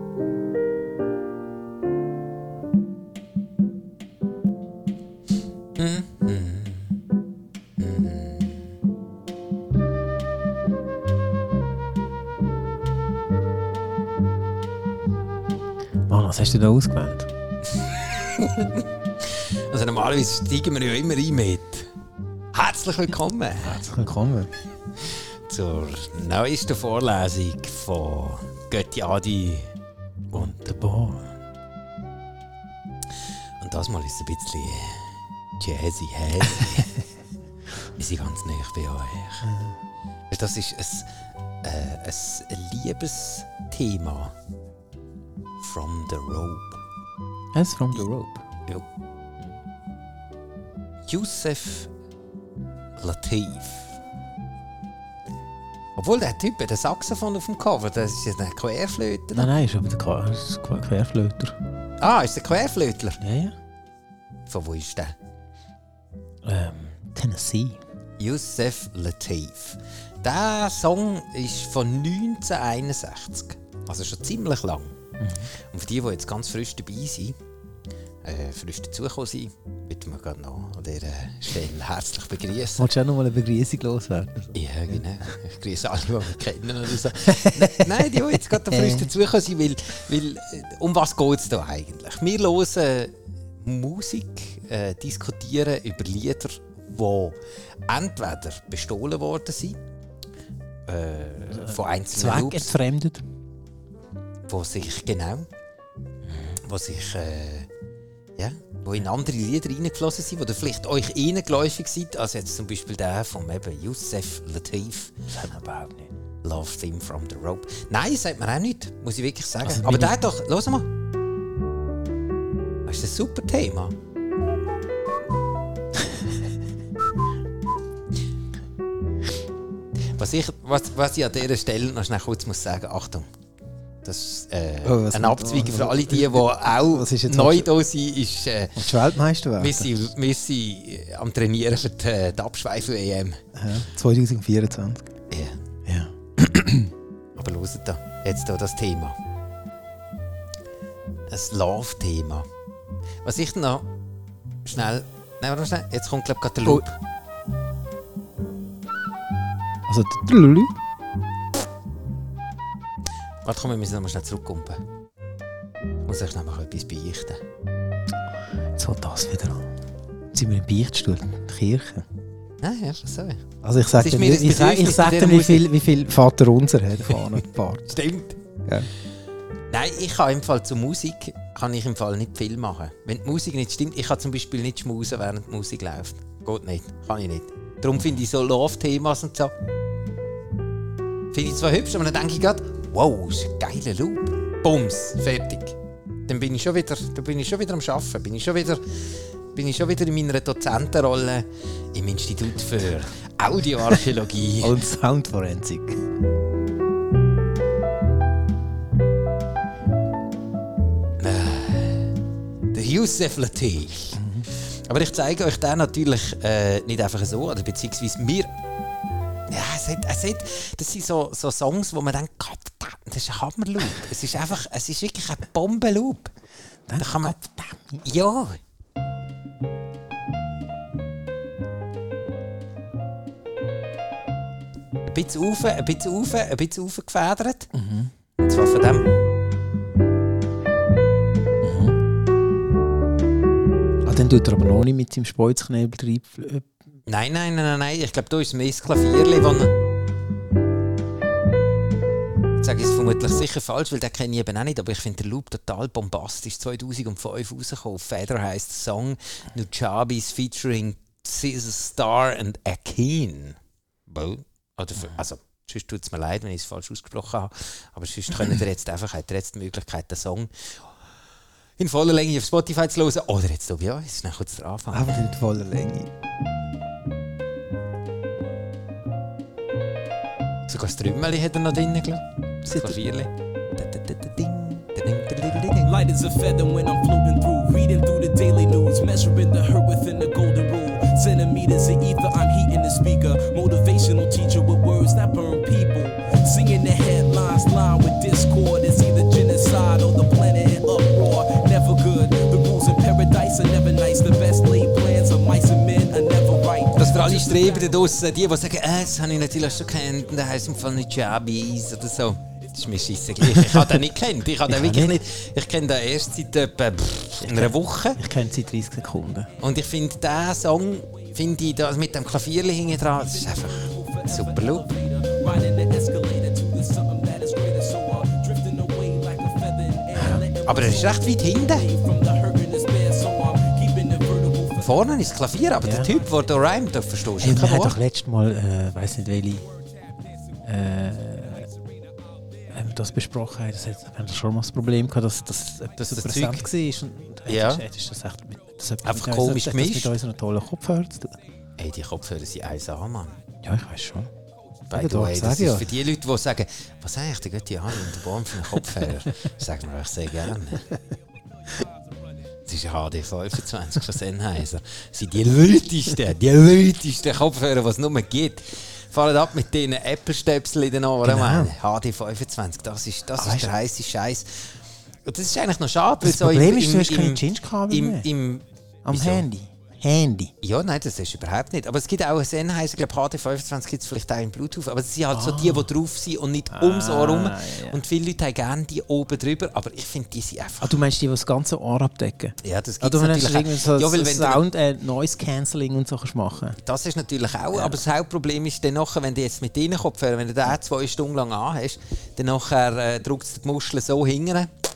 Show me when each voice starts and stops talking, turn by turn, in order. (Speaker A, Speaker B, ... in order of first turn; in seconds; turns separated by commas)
Speaker A: 5.8-6.9, Speaker A: 7.8-8.7, Speaker B: 16.1-17.3, Speaker A: 17.7-21.9, Speaker A: 22.5-23.8, Speaker B: 23.6-24.5, Speaker A: 25.0-29.7, Speaker A: 30.3-31.0, Speaker B: 30.4-31.3, Speaker A: 33.6-36.9, Speaker A: 38.0-39.5, Speaker B: 39.4-39.8, Speaker A: 40.3-41.1, Speaker A: 41.6-44.4, Speaker A: 45.6-46.8, Speaker B: 47.5-48.4, Speaker A: 51.1-51.9, Speaker A: 53.0-53.9, Speaker A: 56.0-59.5, Speaker B: 59.4-61.5, Speaker A: 62.0-63.2, Speaker B: 63.2-63.5, Speaker A: 64.5-65.2, Speaker B: 66.4-67.8, Speaker A: 68.2-75.0, Speaker B: 75.2-75.5, Speaker A: 75.5-77.4, Speaker A: 78.2-82.9, Speaker B: 82.8-84.6, Speaker A: 84.5-99.8, Speaker B: 87.3-89.1, Speaker A: 100.9-102.8, Speaker B: 101.5-103.2, Speaker A: 104.5-105.5, Speaker A: 106.3-107.7, Speaker A: 108.4-115.2, Speaker B: 115.3-116.1, Speaker A: 116.4-120.9, Speaker B: 119.6-120.2, Speaker A: 122.8-124.0, Speaker A: 130.2-133.3, Speaker A: 134.0-139.0, Speaker B: 134.8-137.7, Speaker B: 138.8-140.1, Speaker A: 139.6-143.4, Speaker B: 143.6-145.1, Speaker A: 145.3-145.6, Speaker B: 145.9-146.9, Speaker A: 147.3-149.2, Speaker A: 151.3-152.5, Speaker A: 153.2-153.9, Speaker A: 154.7-157.0, Speaker B: 159.9-160.7, Speaker A: 163.4-164.8, Speaker A: 166.0-167.4, Speaker B: 168.8-169.7, Speaker B: 170.3-172.0, Speaker A: 172.6-173.4, Speaker B: 173.6-177.9, Speaker A: 173.9-175.7, Speaker A: 177.1-178.4, Speaker A: 179.7-189.5, Speaker A: 191.3-204.8, Speaker B: 204.6-206.0, Speaker A: 211.2-212.1, Speaker A: 212.7-218.5, Speaker B: 214.2-214.5, Speaker A: 219.5-226.3, Speaker B: 226.9-228.0, Speaker A: 227.0-227.4, Speaker A: 228.0-228.6, Speaker A: 235.1-237.7, Speaker B: 237.7-238.1, Speaker A: 238.4-239.1, Speaker B: 241.6-242.0, Speaker B: 244.1-246.7, Speaker A: 247.1-249.7, Speaker A: 252.6-270.9, Speaker A: 271.8-275.4, Speaker B: 274.9-276.1, Speaker A: 280.7-286.0, Speaker C: 285.8-307.9, Speaker A: 307.0-318.2, Speaker B: 313.4-313.9, Speaker B: 314.7-315.2, Speaker B: 317.4-319.5, Speaker A: 319.6-324.9, Speaker C: 323.2-335.2, Speaker B: 330.2-330.4, Speaker A: 330.6-331.9, Speaker A: 334.8-338.0, Speaker B: 335.8-336.1, Speaker B: 337.4-339.7, Speaker B: 340.7-341.7, Speaker B: 342.7-351.4, Speaker A: 346.1-346.7, Speaker A: 347.5-347.9, Speaker A: 349.0-350.2, Speaker A: 351.8-353.4, Speaker B: 353.6-354.3, Speaker A: 354.9-360.8, Speaker B: 354.9-355.9, Speaker A: 362.7-379.5, Speaker B: 371.2-371.7, Speaker B: 373.4-373.7, Speaker B: 376.2-378.3, Speaker B: 379.1-380.5, Speaker A: 380.6-391.0, Speaker B: 385.3-385.9, Speaker B: 386.7-388.0, Speaker B: 390.8-396.8, Speaker A: 392.6-394.6, Speaker A: 396.8-404.7, Speaker B: 397.7-398.0